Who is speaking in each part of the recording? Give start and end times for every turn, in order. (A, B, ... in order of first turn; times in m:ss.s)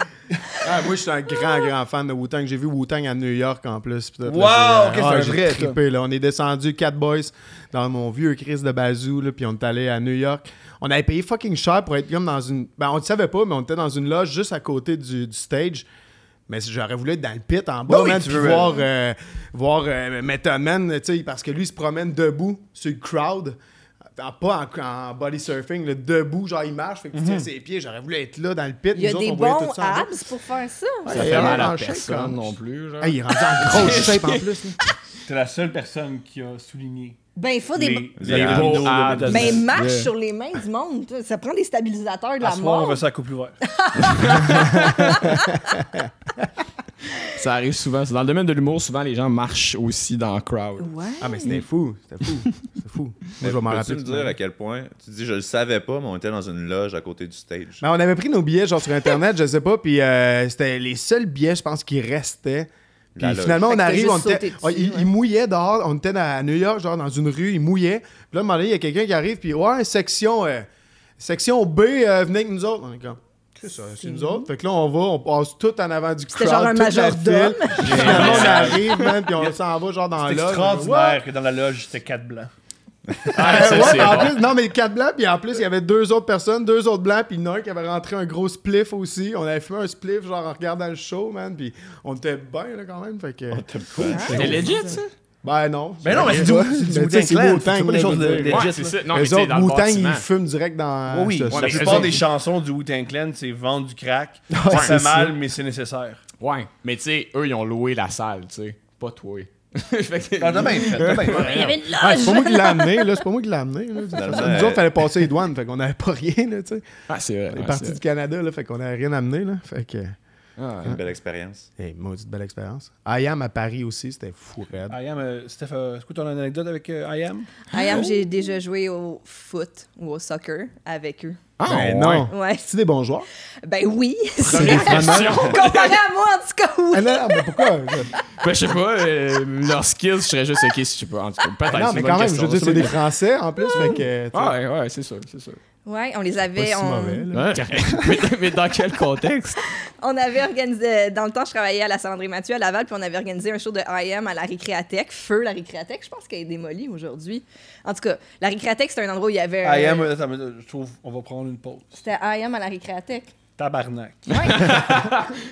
0:00.6-0:15.8 A
0:04.2-0:05.8 B
0:16.5-0:23.6 A
0:17.9-0:18.8 B
0:24.2-0:30.1 A
0:27.1-0:27.5 B
0:28.9-0:31.6 C
0:31.0-0:34.8 A
0:31.1-0:34.9 D
0:35.2-0:37.2 B
0:37.4-0:38.2 C
0:37.7-0:39.7 B
0:38.2-0:39.1 E
0:38.3-0:40.1 D
0:39.2-0:43.0 C
0:42.4-0:43.6 B
0:43.6-0:45.6 C
0:44.1-0:45.2 D
0:44.5-0:46.5 A
0:47.2-0:50.9 D
0:50.8-0:51.6 C
0:51.2-0:54.3 A
0:53.4-0:57.8 E
0:57.8-1:10.7 A
1:03.2-1:03.7 E
1:03.6-1:05.1 C
1:11.2-1:21.2 A
1:14.0-1:14.5 C
1:16.3-1:18.8 C
1:17.8-1:18.8 B
1:17.8-1:18.9 D
1:20.2-1:22.5 B
1:23.3-1:24.4 D
1:23.3-1:34.7 A
1:33.5-1:34.7 E
1:34.1-1:35.0 C
1:34.3-1:35.1 D
1:35.4-1:42.2 A
1:36.0-1:39.0 B
1:36.1-1:36.5 D
1:38.4-1:40.2 D
1:41.1-1:46.2 B
1:41.5-1:42.2 D
1:44.5-1:45.3 A
1:44.7-1:45.0 D
1:46.4-1:51.8 D
1:50.4-1:51.5 B
1:51.2-1:53.2 C
1:51.9-1:56.9 A
1:54.1-1:54.9 E
1:57.1-1:58.0 D
1:57.5-2:00.2 A
2:00.6-2:01.0 D
2:00.8-2:01.7 E
2:01.8-2:05.0 A
2:04.9-2:07.6 B
2:07.7-2:11.4 C
2:11.6-2:12.3 D
2:11.6-2:13.3 A
2:11.7-2:12.2 E
2:12.3-2:12.6 C
2:13.6-2:17.7 C
2:14.4-2:16.0 D
2:14.5-2:15.5 A
2:16.9-2:18.2 A
2:18.4-2:23.0 D
2:21.7-2:24.6 A
2:23.7-2:24.0 C
2:23.8-2:25.6 D
2:25.8-2:27.3 C
2:26.6-2:28.3 A
2:27.3-2:29.6 D
2:30.0-2:40.1 C
2:39.6-2:41.8 B
2:41.9-2:43.3 C
2:43.6-2:44.9 B
2:44.3-2:44.8 C
2:44.5-2:45.2 D